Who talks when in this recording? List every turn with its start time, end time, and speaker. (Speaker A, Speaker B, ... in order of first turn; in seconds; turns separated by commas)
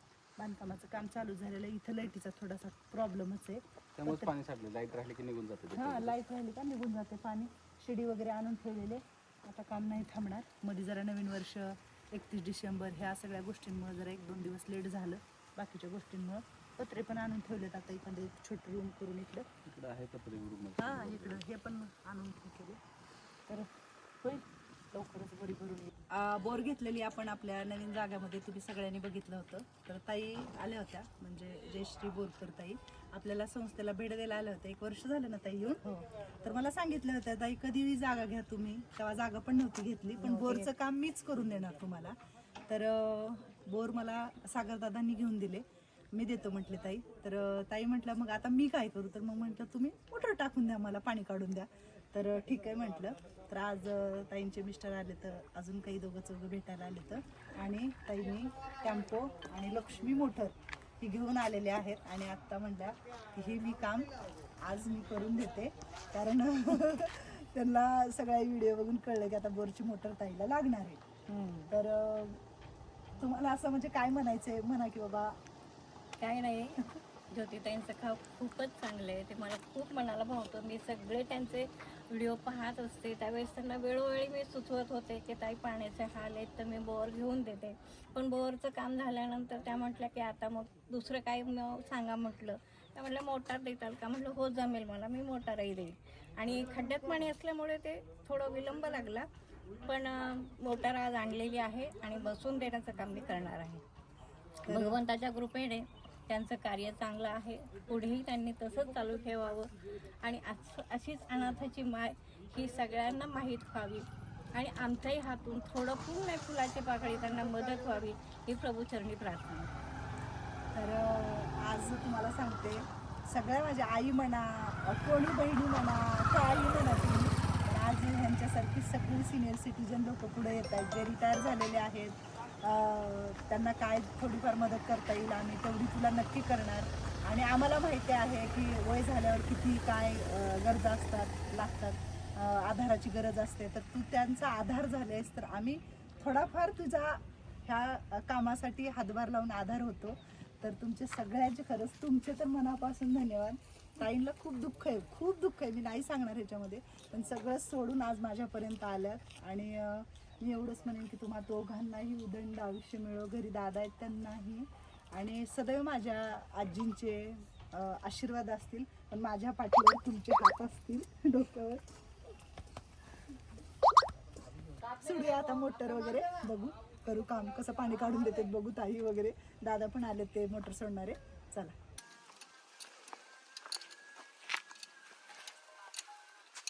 Speaker A: 0.4-4.3, Speaker B: 4.0-6.2, Speaker A: 5.7-19.5, Speaker B: 19.6-21.4, Speaker A: 20.8-22.8, Speaker A: 24.2-42.1, Speaker C: 40.2-40.7, Speaker A: 42.7-64.1, Speaker A: 64.6-71.0, Speaker C: 71.3-71.7, Speaker A: 71.7-72.4, Speaker A: 73.2-75.4, Speaker C: 76.2-99.3, Speaker C: 99.8-103.8, Speaker A: 104.6-105.0, Speaker C: 104.7-119.7, Speaker A: 120.7-171.8, Speaker A: 174.9-181.7